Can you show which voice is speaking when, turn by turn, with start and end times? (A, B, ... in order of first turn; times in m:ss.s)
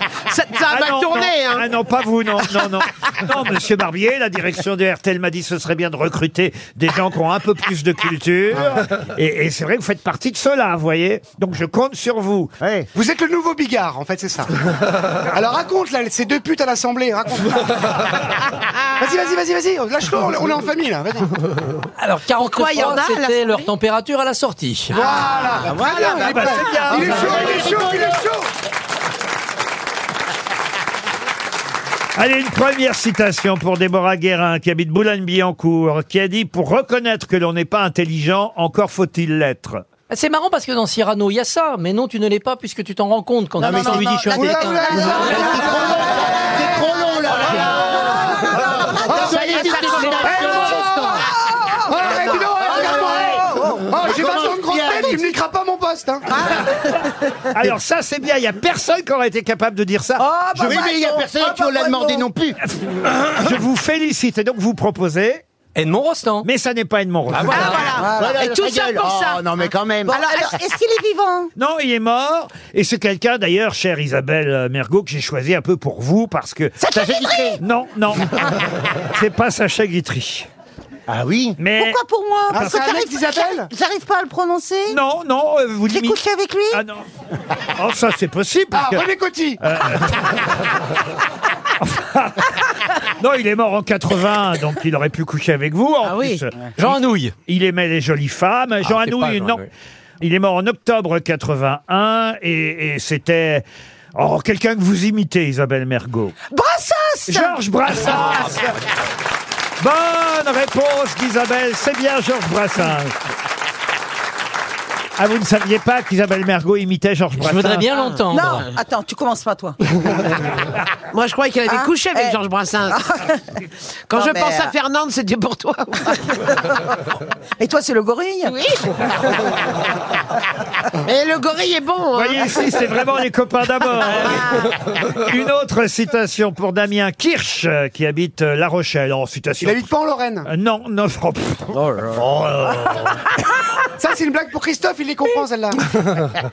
0:00.3-0:01.7 A
0:00.7-0:12.5 B
0:08.5-0:08.8 C
0:12.6-0:12.9 C
0:12.9-0:14.5 D
0:15.2-0:17.8 D
0:19.0-0:21.3 D
0:22.0-0:25.0 E
0:22.4-0:23.7 A
0:24.9-0:28.5 D
0:25.6-0:28.2 C
0:26.2-0:27.8 B
0:32.2-0:39.8 B
0:40.1-0:45.8 E
0:43.6-0:51.3 C
0:43.6-0:53.9 F
0:44.3-0:47.5 D
0:49.1-0:49.6 D
0:49.2-0:50.6 A
0:50.2-0:51.1 D
0:51.9-0:56.5 D
0:52.0-0:55.4 C
0:56.3-0:57.0 F
0:57.5-1:00.8 B
1:00.2-1:02.3 F
1:00.6-1:02.6 C
1:02.7-1:05.4 B
1:05.8-1:06.5 E
1:06.4-1:07.8 B
1:07.3-1:07.9 E
1:07.4-1:09.5 A
1:08.0-1:08.4 F
1:08.1-1:10.2 C
1:10.1-1:11.5 F
1:10.1-1:10.5 A
1:11.6-1:16.8 B
1:16.8-1:17.6 F
1:16.9-1:17.6 C
1:17.6-1:18.4 B
1:19.1-1:20.5 B
1:21.1-1:21.6 C
1:21.6-1:22.0 B
1:21.8-1:25.0 F
1:22.5-1:23.7 D
1:22.6-1:22.8 B
1:24.9-1:26.2 B
1:25.9-1:26.8 F
1:26.7-1:27.0 B
1:27.8-1:29.1 B
1:28.7-1:29.6 D
1:29.6-1:30.4 B
1:31.8-1:32.5 B
1:33.2-1:36.5 B
1:36.0-1:36.4 A
1:36.8-1:37.3 E
1:37.5-1:39.7 B
1:38.8-1:39.7 E
1:40.2-1:46.3 B
1:46.5-1:47.6 F
1:47.3-1:48.8 B
1:49.8-1:53.1 B
1:55.2-1:57.9 B
1:57.4-1:58.7 E
1:57.9-1:58.2 A
1:58.3-1:59.8 F
2:01.1-2:03.0 A
2:01.7-2:02.4 F
2:02.9-2:03.4 F
2:04.1-2:06.2 A
2:04.1-2:04.7 F
2:07.6-2:08.6 F
2:08.5-2:09.6 A
2:11.0-2:12.8 A
2:12.1-2:19.9 B
2:14.1-2:14.4 A
2:19.6-2:20.5 D
2:20.5-2:23.2 B
2:24.0-2:25.9 D